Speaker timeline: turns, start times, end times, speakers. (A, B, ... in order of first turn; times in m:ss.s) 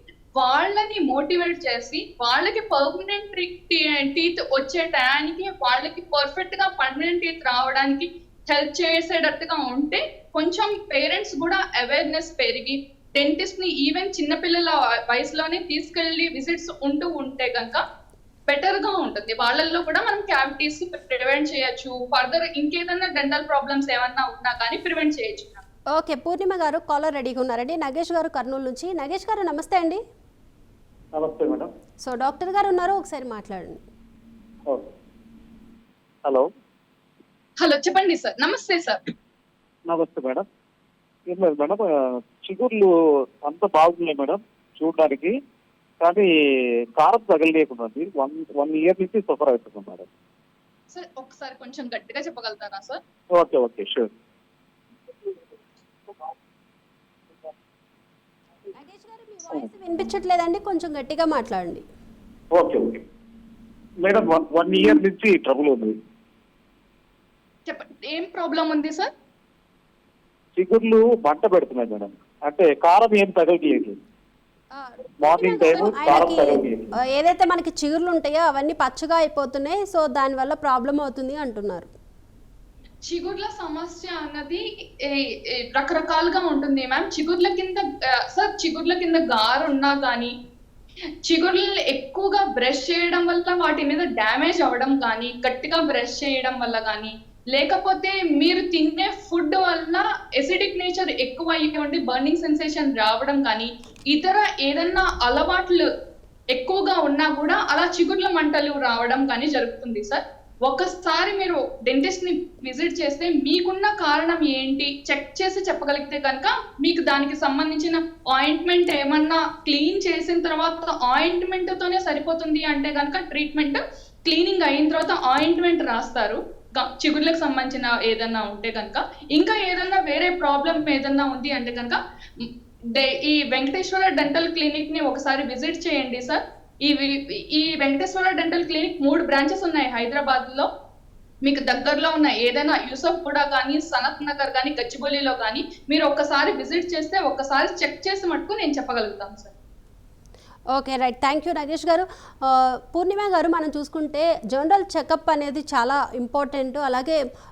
0:00.4-0:17.8 A
0:18.5-0:25.6 A
0:25.9-0:30.0 B
0:31.1-0:31.7 C
0:32.0-0:33.8 B
0:37.6-0:39.0 A
0:39.9-0:40.5 C
0:41.3-0:42.9 C
0:43.4-0:45.3 C
0:46.0-0:46.3 C
0:47.0-0:50.1 C
0:50.9-0:53.0 A
0:53.4-0:54.1 C
0:58.7-1:01.8 B
1:02.5-1:03.0 C
1:04.0-1:06.0 C
1:07.7-1:09.1 A
1:10.6-1:14.0 C
1:15.2-1:16.9 C
1:15.2-1:21.9 B
1:23.0-1:30.3 A
1:31.2-1:45.9 A
1:46.5-2:20.7 A
2:21.4-2:29.5 A
2:30.7-2:37.2 B